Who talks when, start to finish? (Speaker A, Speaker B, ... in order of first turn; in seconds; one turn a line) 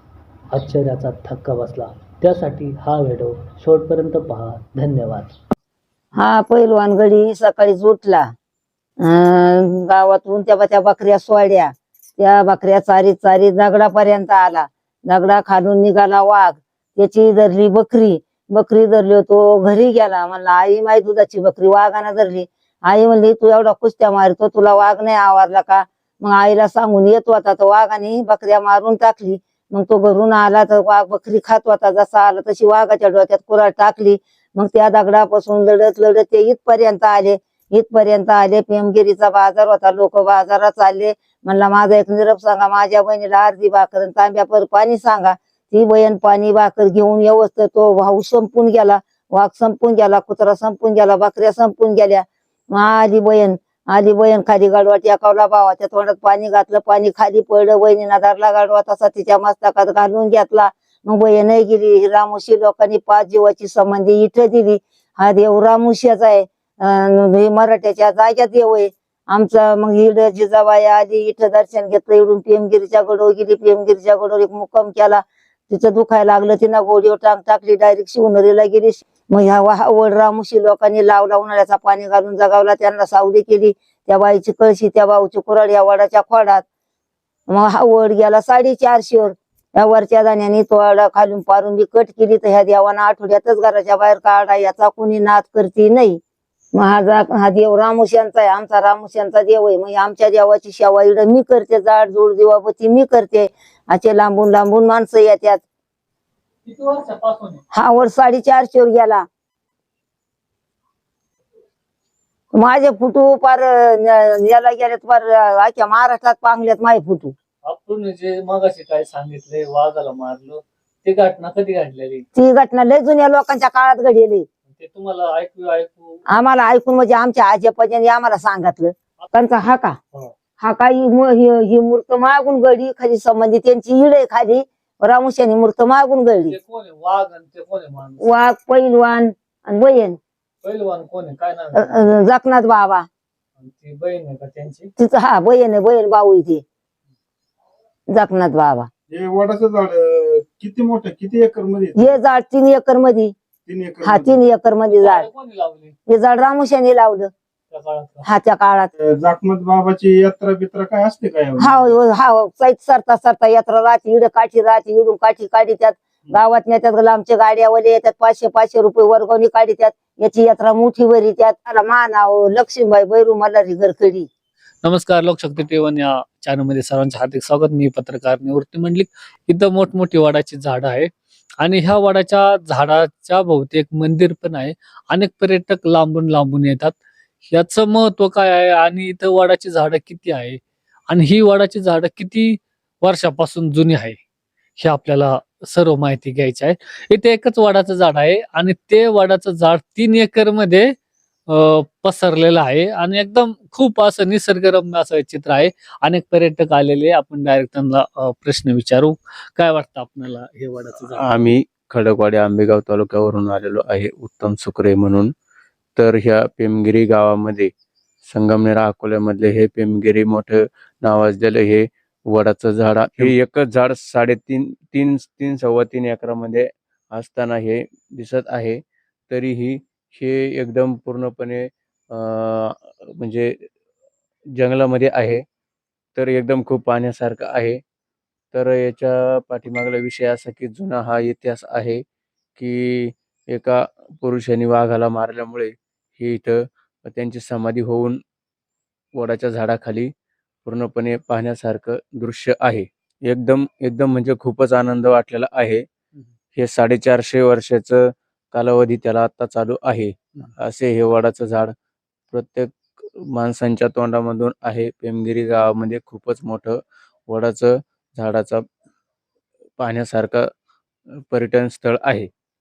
Speaker A: 0.5-5.3
Speaker B: 6.2-8.2
Speaker B: 9.0-86.6
Speaker B: 87.5-96.2
Speaker B: 96.7-105.6
Speaker A: 106.7-107.6
Speaker B: 107.7-109.2
Speaker B: 112.5-117.3
Speaker A: 117.7-122.2
Speaker B: 122.3-124.5
Speaker A: 124.8-126.2
Speaker B: 126.3-130.0
Speaker B: 130.6-136.5
Speaker A: 136.5-138.2
Speaker B: 138.2-140.2
Speaker A: 140.6-142.1
Speaker B: 141.8-143.1
Speaker A: 143.6-144.9
Speaker B: 145.0-146.6
Speaker B: 148.1-148.9
Speaker C: 149.1-152.2
Speaker B: 151.9-153.3
Speaker C: 153.7-154.4
Speaker B: 154.0-155.3
Speaker A: 154.9-155.9
Speaker B: 156.1-157.3
Speaker A: 157.7-158.2
Speaker B: 158.2-158.9
Speaker C: 159.0-161.9
Speaker B: 161.6-174.3
Speaker A: 174.8-186.9
Speaker A: 187.5-194.2
Speaker A: 194.8-200.9
Speaker A: 201.5-211.5
Speaker D: 211.2-215.3
Speaker D: 215.9-217.7
Speaker D: 218.2-233.7
Speaker D: 234.5-235.4
Speaker D: 236.2-237.8
Speaker D: 238.5-242.0
Speaker D: 242.6-248.2
Speaker D: 249.1-250.1
Speaker D: 250.6-255.8
Speaker D: 256.5-261.7
Speaker D: 262.3-268.6
Speaker D: 269.8-270.5
Speaker D: 271.3-272.3